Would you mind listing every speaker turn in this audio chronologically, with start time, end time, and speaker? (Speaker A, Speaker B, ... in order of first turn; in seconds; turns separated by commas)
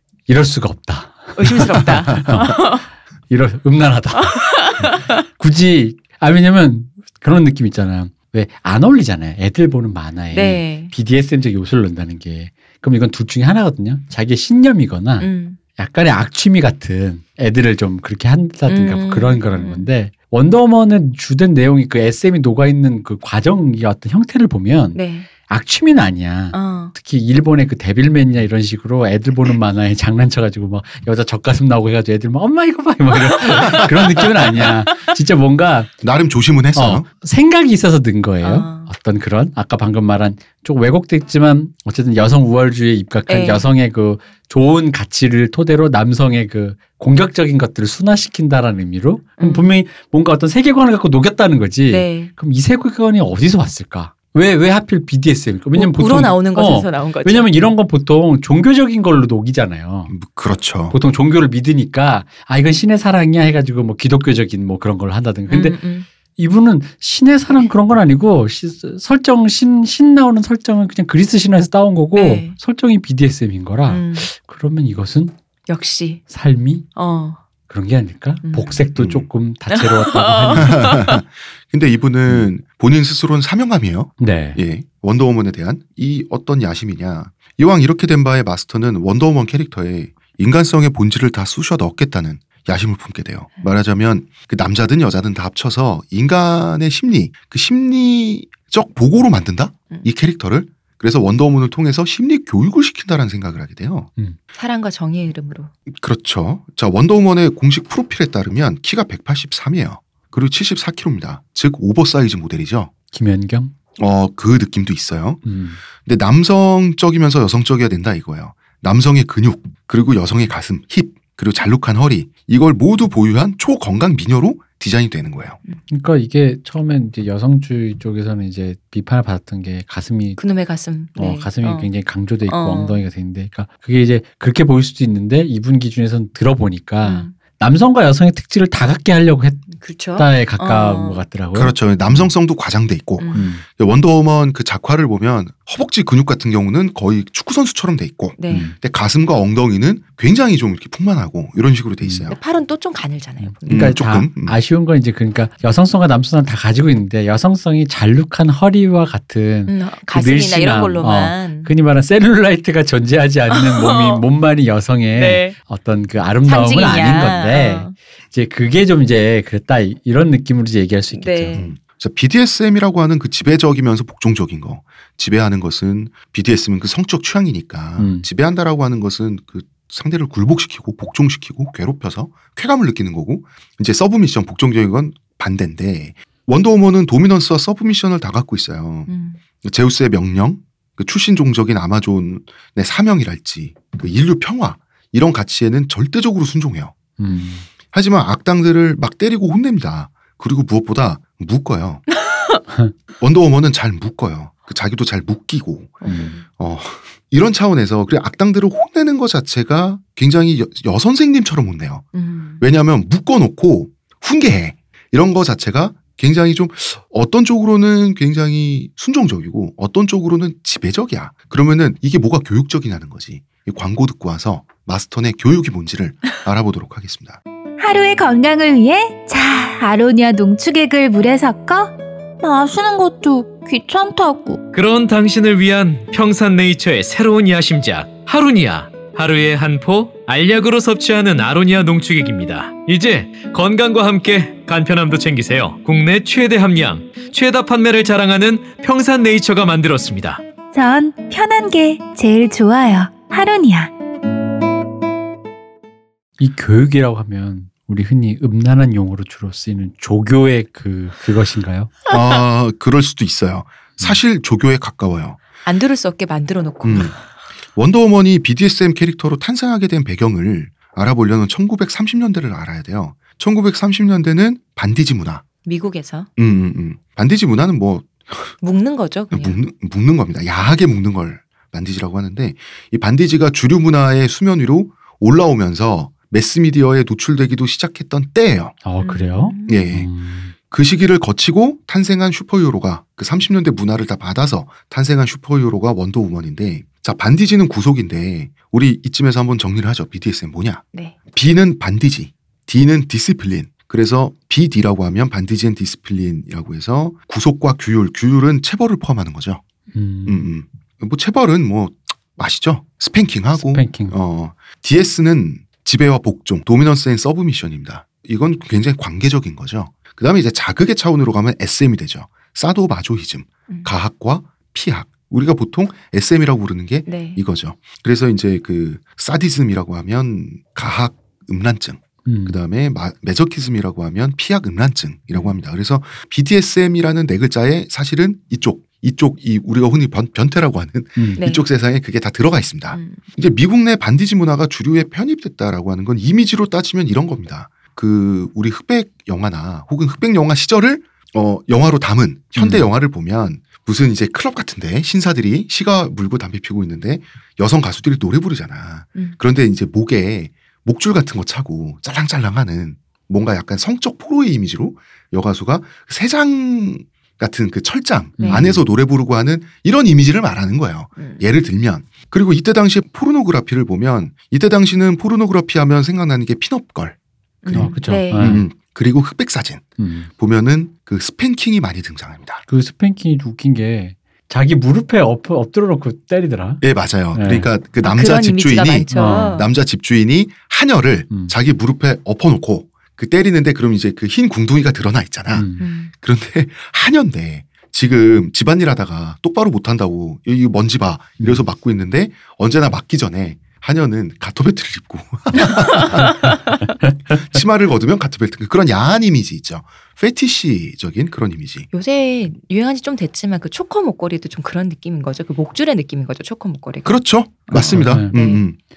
Speaker A: 0.3-2.8, Speaker B: 1.4-2.9, Speaker A: 3.3-35.9, Speaker B: 4.2-5.1, Speaker B: 10.3-10.9, Speaker B: 15.2-15.6, Speaker B: 18.7-19.9, Speaker B: 24.9-25.3, Speaker B: 26.5-26.9, Speaker C: 36.0-37.1, Speaker A: 36.7-60.1, Speaker B: 38.4-38.9, Speaker B: 43.3-43.7, Speaker B: 49.4-49.7, Speaker B: 51.9-52.3, Speaker B: 55.8-57.6, Speaker C: 60.1-61.0, Speaker A: 60.9-65.8, Speaker B: 65.5-66.1, Speaker A: 66.4-75.3, Speaker B: 72.2-72.6, Speaker B: 73.9-74.3, Speaker B: 75.7-76.2, Speaker A: 76.3-76.9, Speaker B: 77.0-77.4, Speaker A: 77.7-80.9, Speaker B: 78.4-78.9, Speaker C: 79.0-79.3, Speaker B: 79.7-81.2, Speaker C: 80.6-104.1, Speaker A: 84.2-84.6, Speaker B: 104.5-105.7, Speaker C: 105.9-112.9, Speaker A: 113.1-113.7, Speaker C: 114.0-115.4, Speaker A: 115.5-115.8, Speaker C: 116.0-125.6, Speaker A: 125.9-130.4, Speaker B: 130.4-131.9, Speaker A: 131.2-142.3, Speaker B: 132.5-133.0, Speaker B: 137.0-137.3, Speaker B: 139.7-141.2, Speaker C: 141.5-152.4, Speaker B: 143.2-143.5, Speaker A: 143.3-143.6, Speaker B: 148.4-148.7, Speaker A: 148.5-148.8, Speaker A: 152.0-152.3, Speaker B: 152.3-154.0, Speaker A: 153.4-171.6, Speaker C: 153.7-154.6, Speaker B: 159.7-161.7, Speaker B: 163.5-164.2, Speaker B: 165.2-165.6, Speaker B: 166.4-167.9, Speaker B: 171.1-171.7, Speaker C: 171.5-189.1, Speaker A: 178.0-178.3, Speaker B: 189.1-189.4, Speaker C: 189.6-196.9, Speaker A: 197.2-197.7, Speaker C: 197.9-202.0, Speaker B: 202.3-202.6, Speaker C: 203.2-212.1, Speaker B: 206.0-206.4, Speaker A: 206.1-206.4, Speaker B: 212.1-212.6, Speaker C: 212.6-227.4, Speaker D: 227.8-234.6, Speaker E: 234.7-250.4, Speaker D: 250.7-253.9, Speaker A: 256.4-261.9, Speaker C: 262.1-265.4, Speaker B: 265.6-267.2, Speaker C: 266.8-267.1, Speaker C: 267.8-275.4, Speaker B: 275.6-276.3, Speaker C: 276.4-278.5, Speaker B: 278.6-279.6, Speaker C: 279.3-288.8, Speaker A: 288.9-290.5, Speaker B: 289.0-290.0, Speaker C: 289.7-290.1, Speaker C: 290.6-309.6, Speaker A: 309.9-310.5, Speaker C: 310.3-382.6, Speaker A: 313.6-314.2, Speaker B: 327.1-327.4, Speaker A: 332.3-332.6, Speaker A: 341.2-341.4, Speaker B: 341.4-341.6, Speaker B: 342.9-343.2, Speaker A: 352.6-352.9, Speaker A: 368.4-368.8, Speaker B: 368.4-368.7, Speaker B: 377.6-378.6, Speaker A: 377.8-378.6, Speaker A: 380.0-380.3, Speaker A: 382.7-386.8, Speaker C: 386.8-406.6, Speaker A: 387.3-387.7, Speaker B: 388.0-389.7, Speaker A: 389.1-389.6, Speaker A: 391.3-391.6, Speaker A: 395.5-395.9, Speaker B: 395.8-396.1, Speaker A: 401.4-401.6, Speaker C: 407.3-411.9, Speaker B: 411.9-418.6, Speaker C: 417.1-418.8, Speaker A: 417.7-418.4